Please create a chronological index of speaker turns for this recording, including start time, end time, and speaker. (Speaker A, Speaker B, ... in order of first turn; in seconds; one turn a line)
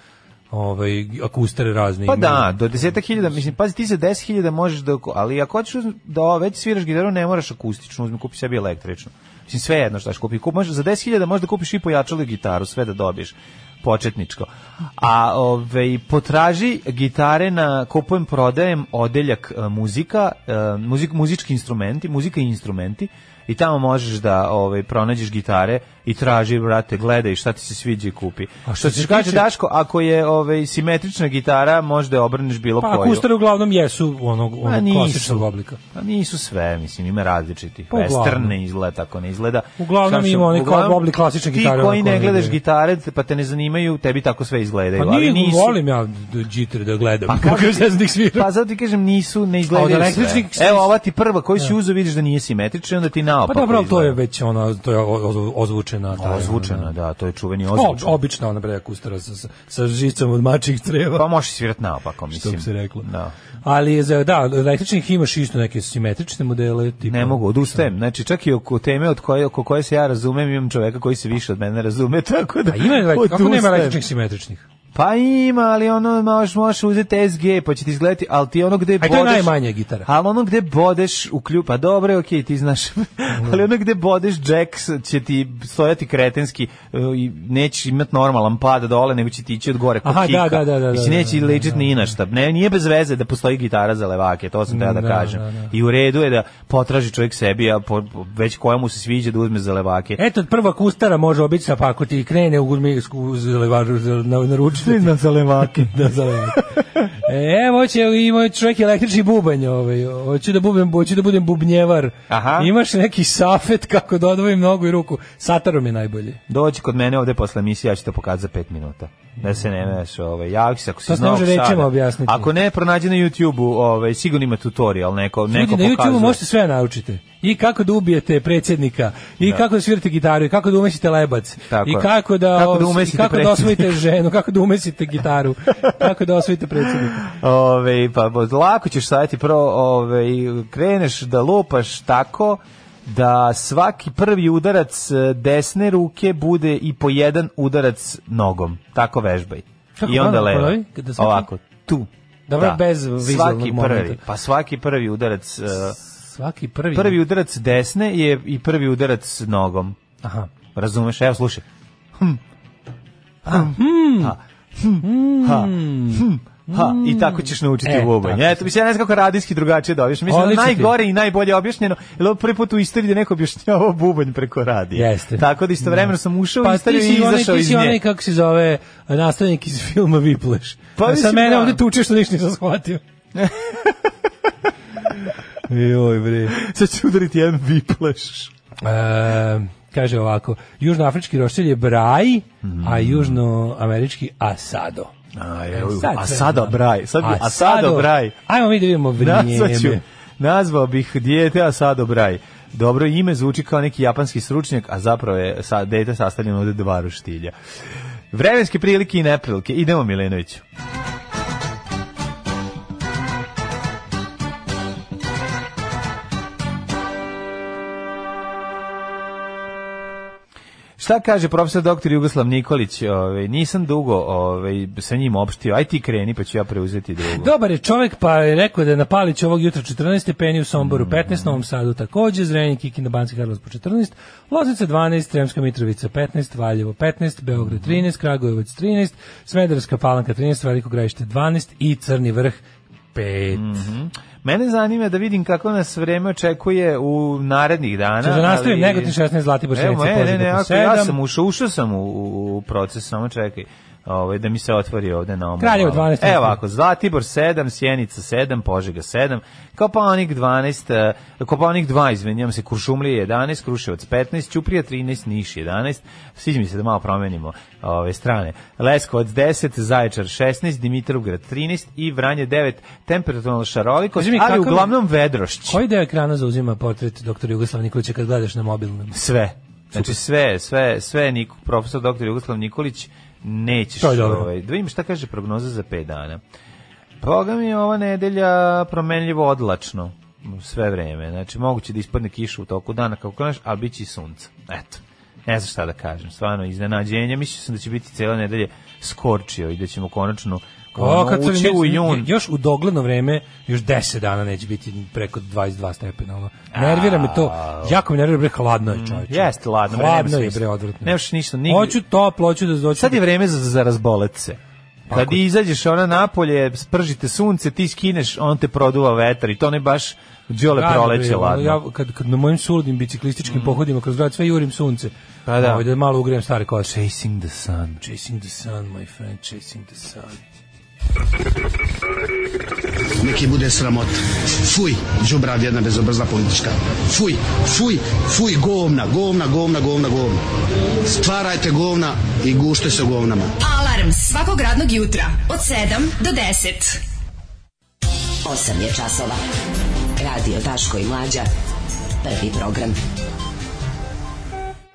Speaker A: 0.5-3.3
Speaker B: 2.0-33.2
Speaker A: 28.6-29.5
Speaker A: 32.8-35.8
Speaker B: 34.6-45.8
Speaker A: 37.9-38.5
Speaker A: 39.8-42.6
Speaker A: 45.0-48.5
Speaker B: 47.3-54.2
Speaker A: 49.7-50.9
Speaker A: 53.5-56.9
Speaker B: 56.1-58.1
Speaker A: 57.7-61.2
Speaker B: 61.1-63.3
Speaker A: 62.3-63.0
Speaker A: 63.6-67.9
Speaker B: 67.0-74.0
Speaker A: 72.7-74.6
Speaker B: 74.9-100.2
Speaker A: 79.0-80.1
Speaker A: 90.0-91.9
Speaker A: 94.7-95.7
Speaker A: 100.2-106.6
Speaker B: 104.8-106.8
Speaker A: 107.2-116.4
Speaker B: 112.3-112.7
Speaker B: 116.5-126.4
Speaker A: 121.1-122.5
Speaker A: 125.5-137.2
Speaker B: 131.7-134.0
Speaker B: 137.0-156.0
Speaker A: 150.0-151.5
Speaker A: 152.5-154.2
Speaker A: 156.1-157.2
Speaker B: 156.9-160.0
Speaker A: 160.2-160.5
Speaker B: 160.7-161.6
Speaker B: 162.2-162.4
Speaker B: 163.4-178.0
Speaker A: 163.4-164.3
Speaker A: 165.0-168.7
Speaker A: 170.3-170.9
Speaker A: 174.9-183.0
Speaker B: 181.0-181.8
Speaker B: 183.3-183.9
Speaker A: 185.7-186.6
Speaker B: 186.5-188.5
Speaker A: 188.8-195.1
Speaker B: 192.6-193.4
Speaker B: 195.3-198.3
Speaker A: 195.7-200.0
Speaker B: 199.2-207.5
Speaker B: 208.3-210.6
Speaker B: 221.0-227.5
Speaker A: 227.3-242.6
Speaker B: 230.8-231.6
Speaker B: 237.6-238.0
Speaker A: 243.1-243.8
Speaker B: 243.5-249.2
Speaker A: 248.2-251.2
Speaker B: 249.7-275.8
Speaker A: 255.6-256.6
Speaker A: 274.1-275.0
Speaker A: 275.7-279.2
Speaker B: 279.1-286.4
Speaker A: 279.9-280.2
Speaker A: 284.0-284.5
Speaker B: 287.2-302.3
Speaker A: 300.9-313.2
Speaker B: 306.7-308.0
Speaker B: 308.9-312.0
Speaker B: 312.9-314.6
Speaker A: 315.1-315.4
Speaker B: 315.1-321.8
Speaker A: 320.7-326.9
Speaker B: 323.4-323.8
Speaker B: 325.4-325.9
Speaker B: 326.8-328.0
Speaker A: 328.0-330.4
Speaker C: 333.2-340.4
Speaker C: 341.0-343.5
Speaker D: 343.6-347.0
Speaker E: 348.4-349.4
Speaker E: 350.2-351.5
Speaker E: 352.2-353.0